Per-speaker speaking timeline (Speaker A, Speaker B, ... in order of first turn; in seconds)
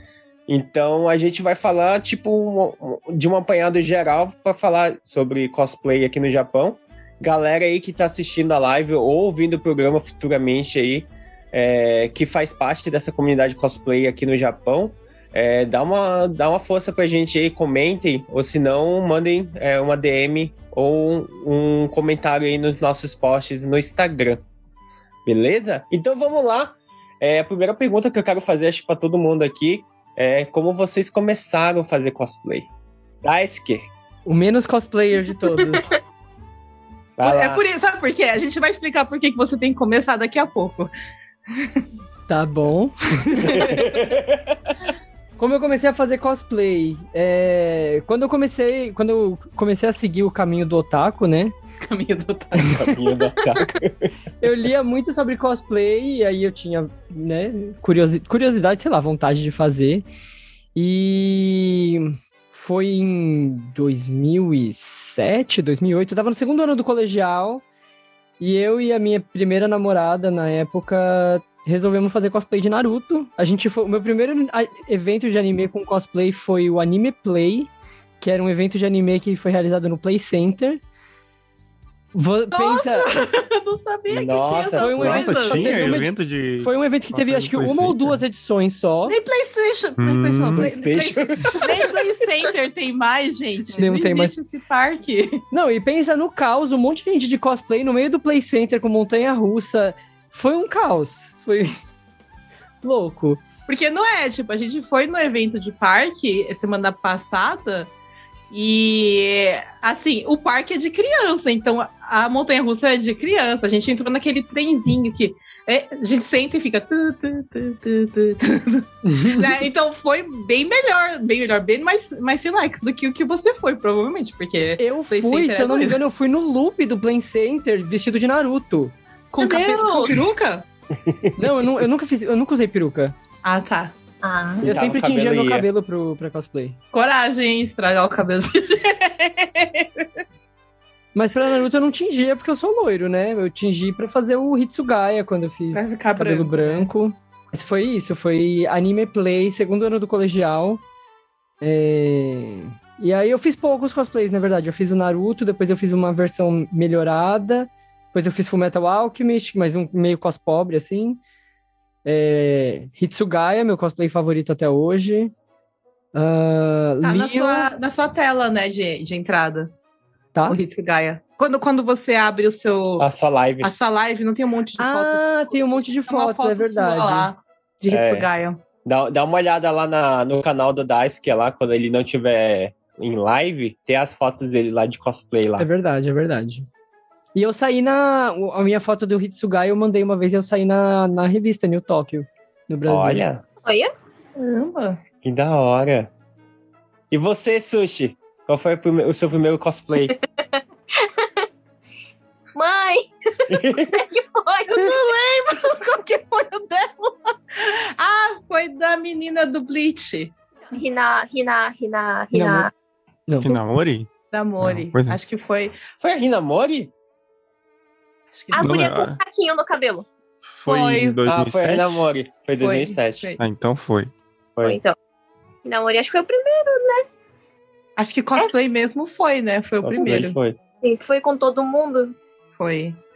Speaker A: 0.5-24.4, 25.3-32.7, 33.2-33.9, 37.2-37.6, 43.5-44.7, 52.6-54.1, 84.1-85.5, 90.5-91.9, 131.0-131.3, 134.6-135.7, 173.0-173.7, 177.9-178.3, 178.8-185.7, 192.9-193.4, 195.2-196.1, 197.1-200.1, 203.5-203.8, 216.0-216.9, 221.3-223.2, 229.8-230.6
Speaker B: 34.3-36.0, 42.3-43.7, 45.4-51.5, 54.4-60.1, 60.8-67.6, 68.4-80.8, 82.1-83.1, 84.8-89.2, 93.8-94.3, 95.5-101.8, 102.8-103.4, 119.0-119.5, 124.8-128.9, 131.4-133.2, 134.6-136.8, 141.2-150.8, 151.6-161.2, 162.1-165.3, 166.1-167.7, 174.8-177.3, 185.6-186.7, 187.3-193.2, 212.3-212.7, 213.3-213.6
Speaker C: 35.7-36.0, 129.4-130.3, 134.2-134.7, 193.6-193.9, 200.2-201.4, 202.6-205.1, 210.7-212.7, 218.5-220.1, 224.6-225.0, 225.7-227.1, 230.8-232.2
Speaker D: 37.2-40.9, 41.5-41.9, 43.4-43.9, 51.8-52.8, 82.5-85.7, 89.1-95.4, 103.7-107.9, 108.5-126.0, 129.3-130.7, 133.4-133.9, 136.9-140.1, 145.7-146.9, 167.0-169.7, 170.5-173.1, 173.6-178.6, 194.4-195.0, 204.7-210.3, 214.3-215.8, 218.3-218.7, 220.7-221.2, 222.6-223.4, 228.0-230.4, 232.6-233.0
Speaker E: 85.0-88.2, 90.0-90.7, 213.4-214.1, 214.6-215.2, 218.6-219.2, 220.6-222.0, 223.4-224.1